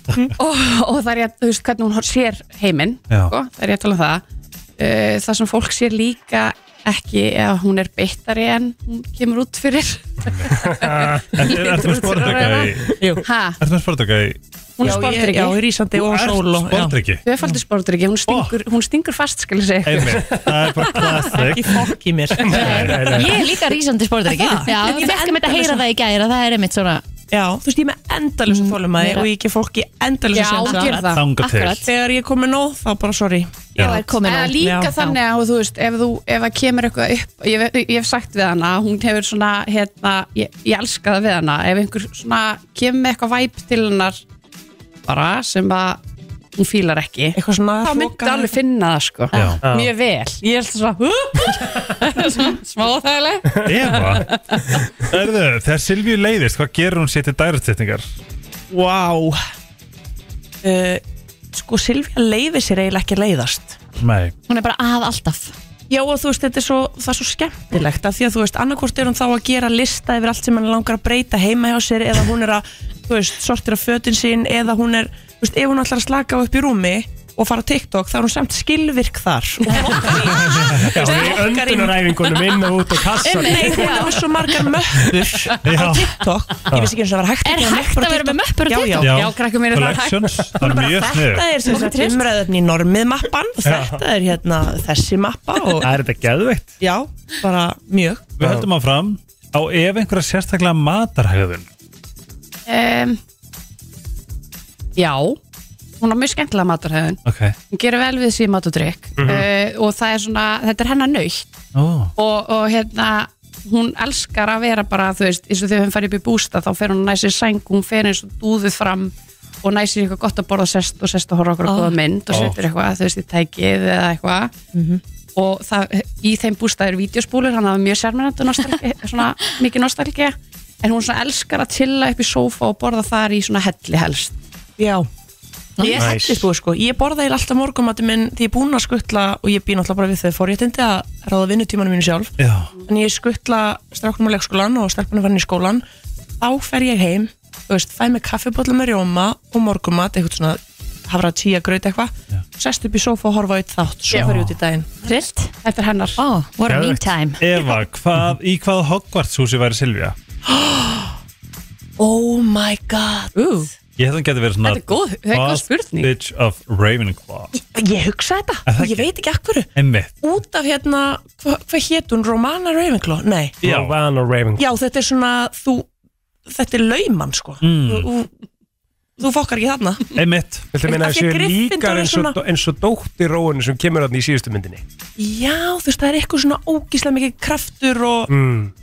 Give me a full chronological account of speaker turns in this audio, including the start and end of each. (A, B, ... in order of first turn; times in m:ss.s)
0:00.3-0:04.2 A
0:04.8-0:13.6 A
0:10.2-0:13.0 B
0:13.6-0:15.0 B
0:14.8-0:15.6 A
0:14.8-0:17.0 C
0:15.9-0:17.2 B
0:17.2-0:20.3 A
0:18.3-0:18.6 B
0:19.8-0:21.9 B
0:21.2-0:23.4 C
0:22.4-0:23.1 B
0:22.6-0:27.0 D
0:22.6-0:23.3 E
0:24.3-0:25.8 C
0:27.3-0:31.0 C
0:28.5-0:29.3 D
0:30.3-0:31.2 A
0:30.6-0:31.9 D
0:31.1-0:31.9 B
0:31.8-0:33.8 C
0:33.8-0:34.0 B
0:33.8-0:35.2 D
0:34.2-0:44.2 A
0:34.6-0:34.9 C
0:45.0-0:46.0 A
0:46.6-0:54.6 A
0:47.4-0:48.5 C
0:49.3-0:49.6 B
0:49.6-0:49.9 E
0:53.6-0:54.4 B
0:55.0-0:58.1 B
0:58.7-0:59.4 C
1:00.6-1:01.0 C
1:01.5-1:03.8 C
1:04.0-1:04.3 B
1:04.5-1:05.5 D
1:05.9-1:22.2 C
1:19.9-1:20.2 A
1:20.4-1:21.0 B
1:20.9-1:24.0 E
1:23.2-1:29.2 C
1:23.8-1:24.2 A
1:25.6-1:26.3 B
1:27.4-1:29.1 D
1:29.0-1:31.1 A
1:29.0-1:31.5 B
1:30.6-1:35.9 C
1:31.6-1:32.1 A
1:33.6-1:34.0 E
1:35.8-1:36.7 E
1:36.8-1:38.3 C
1:38.4-1:41.7 B
1:42.7-1:43.2 A
1:45.0-1:45.4 A
1:46.0-1:47.2 A
1:47.2-1:47.5 B
1:47.7-1:51.5 A
1:49.2-1:49.4 E
1:51.7-1:52.1 B
1:52.2-2:04.5 A
2:01.7-2:02.0 D
2:02.3-2:02.6 B
2:04.7-2:05.0 C
2:05.4-2:14.4 A
2:14.8-2:15.1 C
2:15.8-2:16.0 D
2:15.8-2:25.8 C
2:16.0-2:16.4 E
2:22.4-2:22.7 B
2:26.4-2:34.9 C
2:34.2-2:34.5 B
2:35.0-2:35.5 D
2:35.0-2:36.2 A
2:36.2-2:37.4 D
2:36.7-2:37.0 E
2:37.4-2:40.2 B
2:40.4-2:41.1 C
2:42.0-2:43.4 C
2:43.3-2:43.7 A
2:44.0-2:47.5 B
2:44.6-2:46.1 A
2:47.5-2:49.7 C
2:48.6-2:49.1 B
2:49.7-2:50.2 B
2:50.2-2:53.6 C
2:53.6-2:54.0 B
2:53.6-2:54.6 E
2:54.6-2:55.9 C
2:56.4-2:58.3 C
2:57.6-2:58.1 B
2:59.2-3:00.1 C
3:00.1-3:00.7 B
3:00.7-3:04.8 E
3:00.8-3:02.4 C
3:05.2-3:08.3 C
3:08.3-3:08.7 E